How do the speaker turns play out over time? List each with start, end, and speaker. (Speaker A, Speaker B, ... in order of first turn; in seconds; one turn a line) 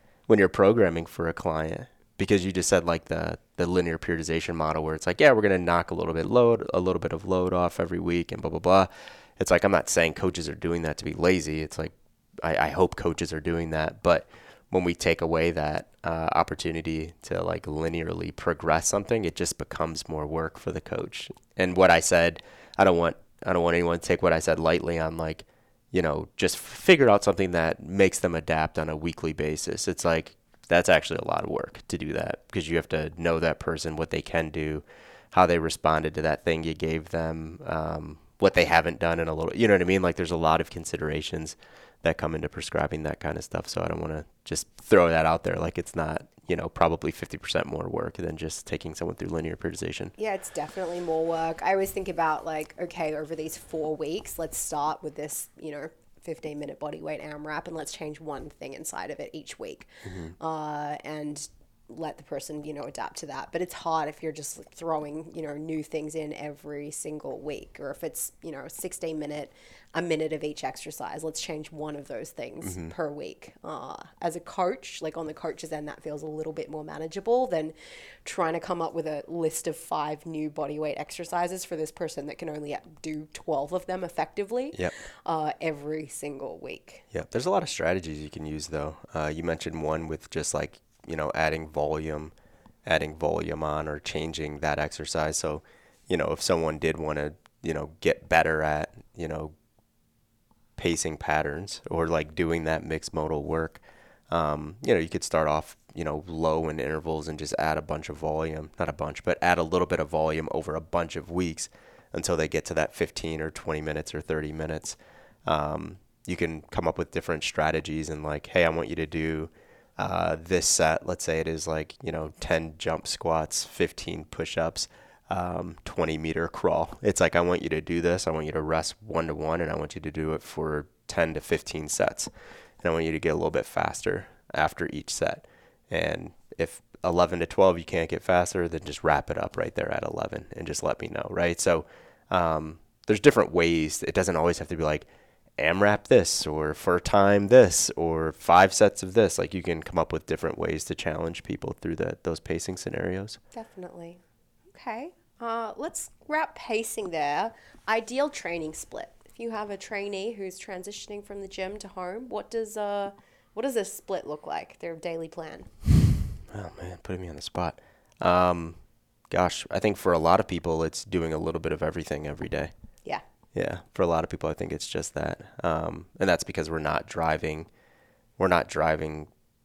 Speaker A: 0.3-50.1
Speaker B: 50.2-77.7
Speaker A: 60.0-60.3
Speaker A: 72.6-72.9
Speaker B: 78.2-87.0
Speaker A: 87.1-92.3
Speaker A: 92.8-99.5
Speaker A: 100.8-132.3
Speaker A: 132.8-145.1
Speaker A: 145.6-153.4
Speaker B: 153.5-154.2
Speaker B: 154.7-165.7
Speaker A: 166.5-168.8
Speaker A: 169.3-172.7
Speaker A: 173.5-177.7
Speaker A: 178.4-179.3